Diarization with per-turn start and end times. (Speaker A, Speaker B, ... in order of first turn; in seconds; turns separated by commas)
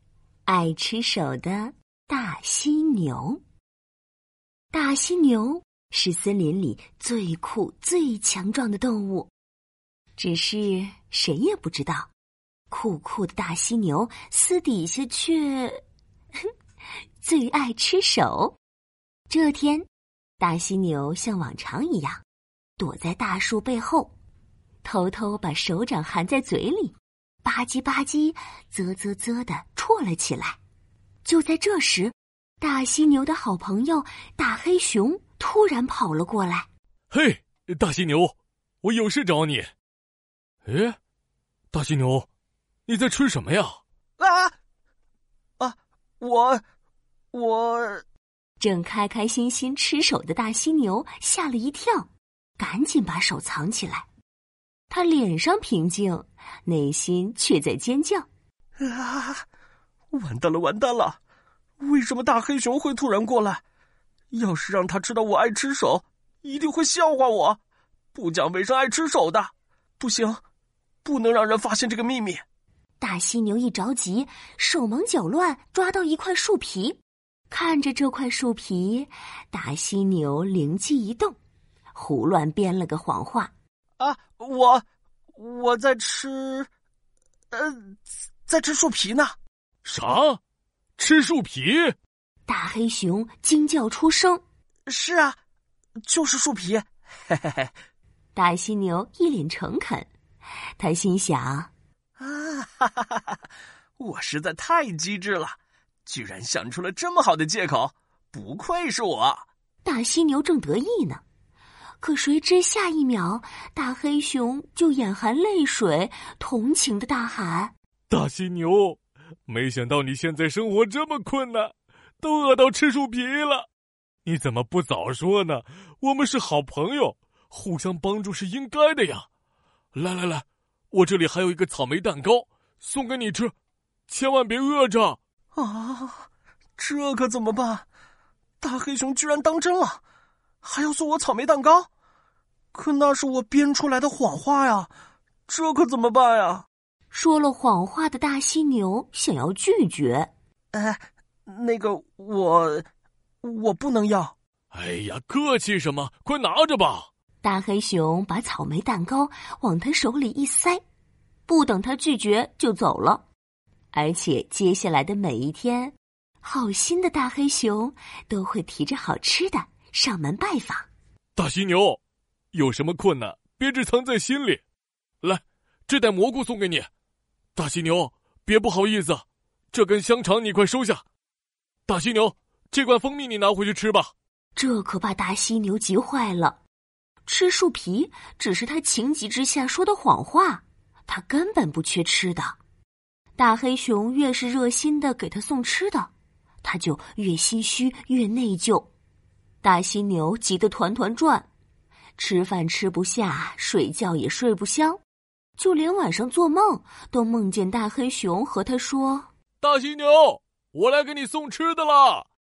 Speaker A: 0.5-3.4, Speaker A: 4.7-9.3, Speaker A: 10.2-12.1, Speaker A: 12.7-15.8, Speaker A: 17.2-18.6, Speaker A: 19.3-19.9, Speaker A: 20.4-22.2, Speaker A: 22.8-24.1, Speaker A: 24.8-30.6, Speaker A: 31.2-36.7, Speaker B: 37.1-39.7, Speaker B: 40.7-41.0, Speaker B: 41.7-42.3, Speaker B: 42.9-43.8, Speaker C: 44.2-44.5, Speaker C: 45.6-46.6, Speaker C: 47.3-48.0, Speaker A: 48.6-54.0, Speaker A: 54.9-58.3, Speaker C: 58.8-59.4, Speaker C: 60.1-61.2, Speaker C: 61.8-63.6, Speaker C: 64.3-67.6, Speaker C: 68.1-70.4, Speaker C: 71.0-72.4, Speaker A: 73.0-77.0, Speaker A: 77.5-81.4, Speaker A: 81.9-83.5, Speaker C: 84.0-86.7, Speaker C: 87.5-89.4, Speaker B: 89.8-90.4, Speaker B: 91.0-91.9, Speaker A: 92.5-94.4, Speaker C: 94.9-95.4, Speaker C: 96.0-97.7, Speaker A: 98.3-100.1, Speaker A: 100.8-101.7, Speaker C: 102.2-103.3, Speaker C: 104.0-109.5, Speaker A: 109.8-111.2, Speaker A: 112.0-117.7, Speaker B: 118.1-123.7, Speaker B: 124.2-129.2, Speaker B: 129.9-133.5, Speaker B: 134.1-135.2, Speaker C: 135.5-137.8, Speaker C: 138.6-140.0, Speaker C: 140.6-141.9, Speaker C: 142.7-144.9, Speaker C: 145.5-146.7, Speaker A: 147.1-150.3, Speaker C: 150.7-152.8, Speaker C: 153.4-154.3, Speaker B: 154.7-157.1, Speaker A: 157.4-160.8, Speaker A: 161.5-163.2, Speaker A: 163.9-170.9, Speaker B: 171.3-172.0, Speaker B: 172.5-174.6, Speaker B: 175.2-176.9, Speaker B: 177.5-181.0, Speaker B: 181.9-184.1, Speaker A: 184.6-186.6, Speaker A: 187.2-192.6, Speaker A: 193.4-196.1, Speaker A: 196.6-198.9, Speaker A: 199.6-201.5, Speaker A: 202.2-205.0, Speaker A: 205.6-209.3, Speaker B: 209.6-212.2